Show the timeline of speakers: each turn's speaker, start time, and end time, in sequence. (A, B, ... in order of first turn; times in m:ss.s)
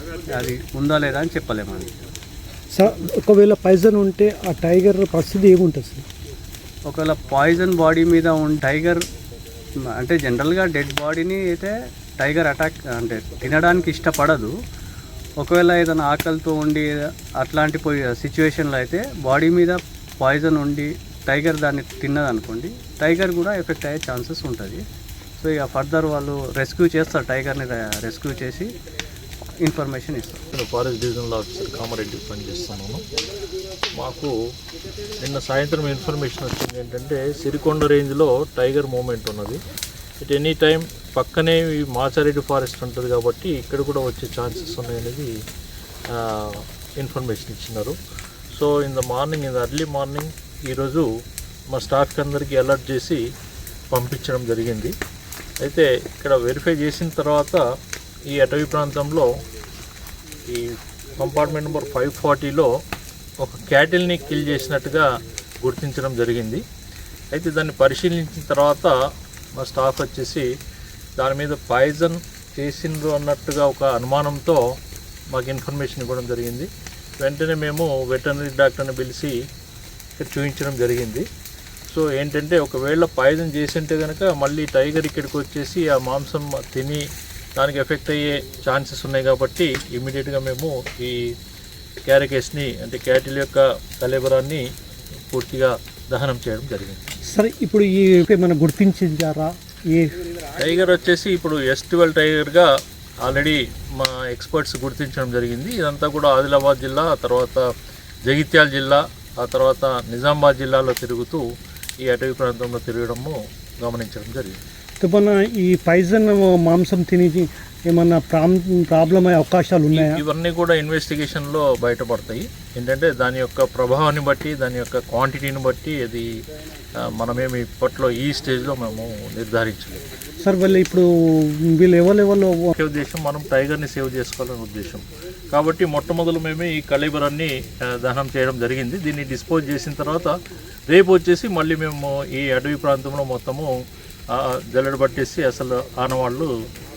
0:00.3-0:01.9 A
0:02.7-0:06.0 B
0:06.9-0:09.0 A
0:10.0-0:14.5 A
0:15.4-0:16.9 A
0:17.4-0:24.8 A
0:25.4-0:28.7 A
0:29.6-0:30.4 A
0:30.5-0:33.0 C
0:34.0-0:34.3 C
0:35.2-0:39.6 C
0:40.2-0:45.3 C
0:46.1-0:48.0 C
0:48.5-0:51.0 C
0:51.7-0:53.2 C
0:53.9-0:54.9 C
0:55.6-0:57.6 C
0:58.3-0:59.3 C
1:01.1-1:02.7 C
1:03.4-1:05.1 C
1:05.6-1:06.6 C
1:07.3-1:08.9 C
1:09.5-1:10.4 C
1:11.2-1:14.6 C
1:15.3-1:16.7 C
1:17.2-1:19.3 C
1:20.2-1:21.2 C
1:21.9-1:27.0 C
1:27.6-1:31.2 C
1:32.1-1:34.6 C
1:35.3-1:37.0 C
1:37.3-1:40.1 B
1:40.6-1:42.7 C
1:43.2-1:47.7 C
1:48.2-1:51.4 C
1:52.0-1:54.6 C
1:55.0-2:00.2 B
1:59.9-2:06.4 C
2:07.0-2:10.0 C
2:10.4-2:12.7 B
2:12.7-2:20.4 C
2:20.9-2:23.7 C
2:24.3-2:26.5 C